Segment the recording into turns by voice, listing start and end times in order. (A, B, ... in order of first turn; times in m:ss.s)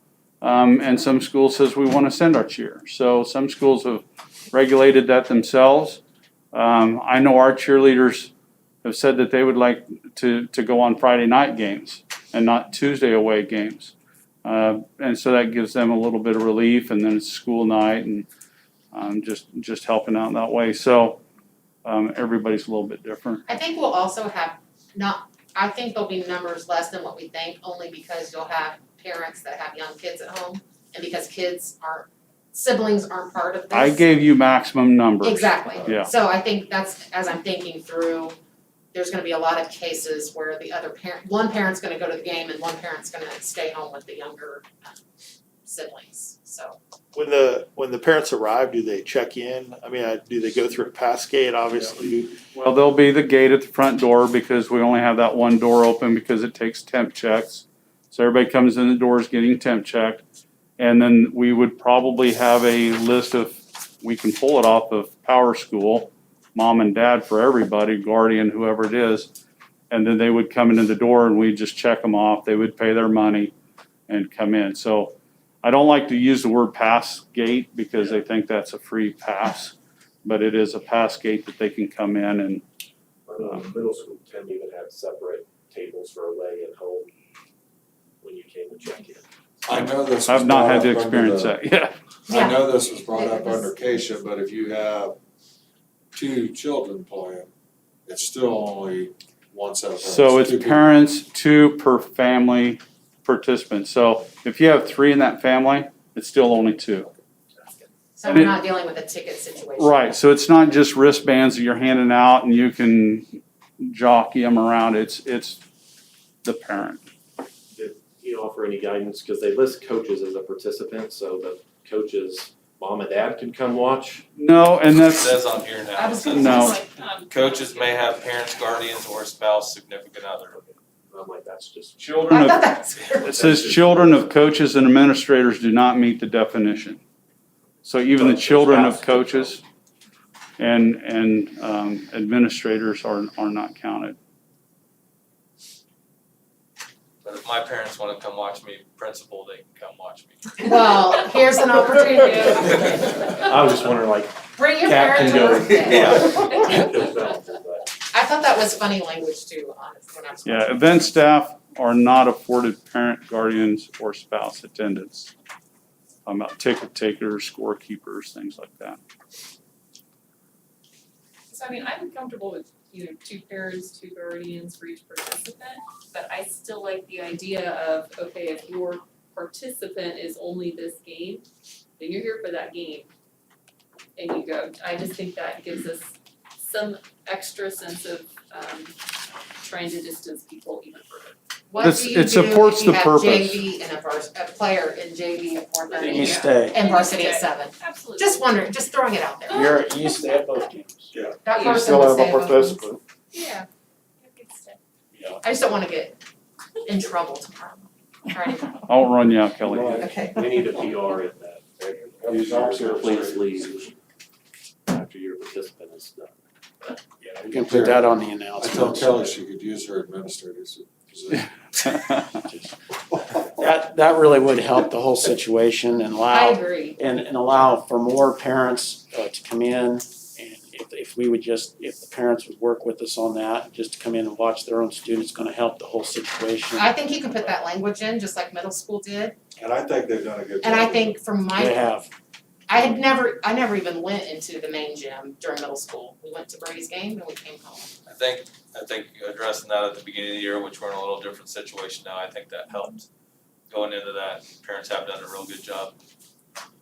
0:00.4-0:06.0 A
0:06.5-0:08.3 A
0:08.8-0:13.9 A
0:14.4-0:18.3 A
0:18.9-0:21.2 A
0:21.8-0:23.4 A
0:23.5-0:34.1 B
0:33.7-0:36.1 A
0:35.2-0:38.4 B
0:38.9-0:45.0 B
0:45.6-0:46.8 B
0:47.1-0:52.4 C
0:52.5-1:00.2 A
1:00.8-1:09.3 A
1:09.9-1:13.5 A
1:14.1-1:22.6 A
1:23.3-1:27.1 D
1:28.2-1:29.3 D
1:29.7-1:31.6 E
1:29.7-1:31.9 A
1:32.3-1:35.2 E
1:32.3-1:33.7 B
1:36.1-1:37.5 E
1:38.1-1:40.9 E
1:40.0-1:47.1 A
1:48.2-1:50.2 B
1:48.2-1:48.6 A
1:49.8-1:55.6 A
1:56.4-1:57.0 A
1:57.7-2:04.3 D
2:04.4-2:05.4 A
2:05.2-2:06.5 F
2:06.0-2:06.8 B
2:06.2-2:08.4 G
2:06.3-2:06.8 A
2:07.3-2:10.6 F
2:10.5-2:12.4 D
2:12.0-2:12.7 A
2:12.3-2:13.4 B
2:13.2-2:17.0 A
2:13.3-2:14.3 D
2:17.8-2:19.6 A
2:18.2-2:19.5 D
2:20.6-2:24.2 A
2:27.2-2:30.7 F
2:30.6-2:33.2 B
2:32.2-2:32.7 G
2:32.4-2:37.9 D
2:34.6-2:36.2 B
2:35.7-2:36.3 F
2:36.3-2:36.8 G
2:38.0-2:41.1 B
2:40.4-2:45.3 A
2:46.3-2:49.0 A
2:51.5-3:01.5 G
3:02.0-3:03.1 G
3:04.2-3:09.0 G
3:09.6-3:11.4 G
3:11.7-3:19.9 B
3:11.8-3:13.6 A
3:15.9-3:18.5 G
3:16.0-3:16.8 H
3:19.5-3:21.1 H
3:21.4-3:22.9 B
3:21.9-3:22.5 H
3:23.3-3:23.7 G
3:24.2-3:24.8 G
3:25.1-3:25.4 H
3:25.4-3:26.2 B
3:26.9-3:28.8 B
3:28.9-3:30.0 A
3:29.7-3:33.9 D
3:29.9-3:30.6 B
3:32.2-3:33.7 E
3:34.9-3:37.6 D
3:37.5-3:39.3 H
3:37.6-3:38.1 E
3:38.6-3:41.5 E
3:41.8-3:42.4 A
3:43.5-3:57.0 H
3:46.3-3:47.0 B
3:56.8-3:59.4 B
3:59.6-4:01.2 E
4:00.6-4:01.8 B
4:01.5-4:02.1 H
4:02.7-4:07.9 B
4:08.0-4:13.1 F
4:13.7-4:16.0 F